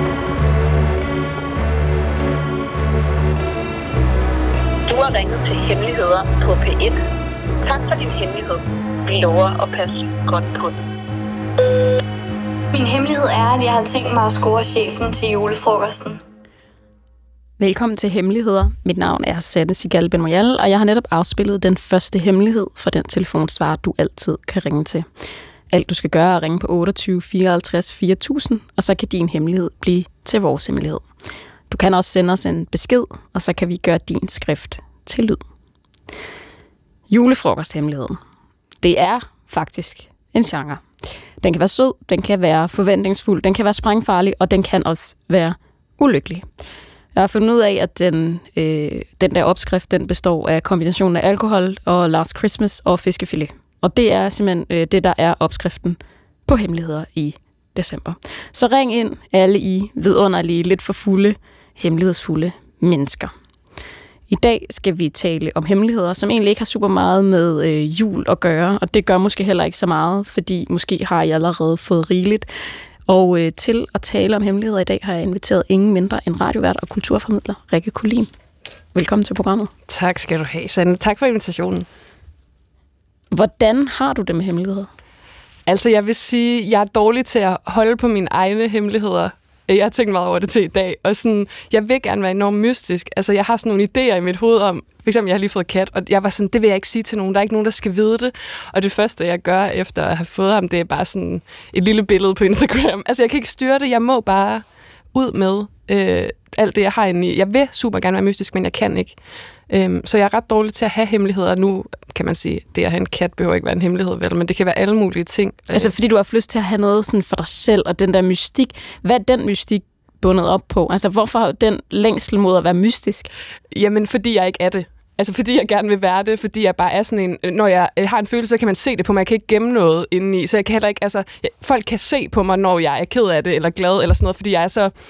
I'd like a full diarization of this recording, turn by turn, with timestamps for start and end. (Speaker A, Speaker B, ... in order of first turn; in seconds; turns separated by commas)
Speaker A: 4.9-7.0, Speaker A: 7.7-10.8, Speaker B: 12.7-16.2, Speaker C: 17.6-25.1, Speaker C: 25.7-31.1, Speaker C: 31.7-35.4, Speaker C: 37.1-38.2, Speaker C: 38.8-40.8, Speaker C: 41.4-46.5, Speaker C: 47.1-63.3, Speaker C: 64.3-72.5, Speaker C: 73.1-78.3, Speaker C: 78.9-79.7, Speaker D: 79.9-81.9, Speaker C: 83.3-84.9, Speaker D: 85.7-109.2, Speaker D: 109.7-115.9, Speaker C: 115.7-123.3, Speaker D: 123.7-134.9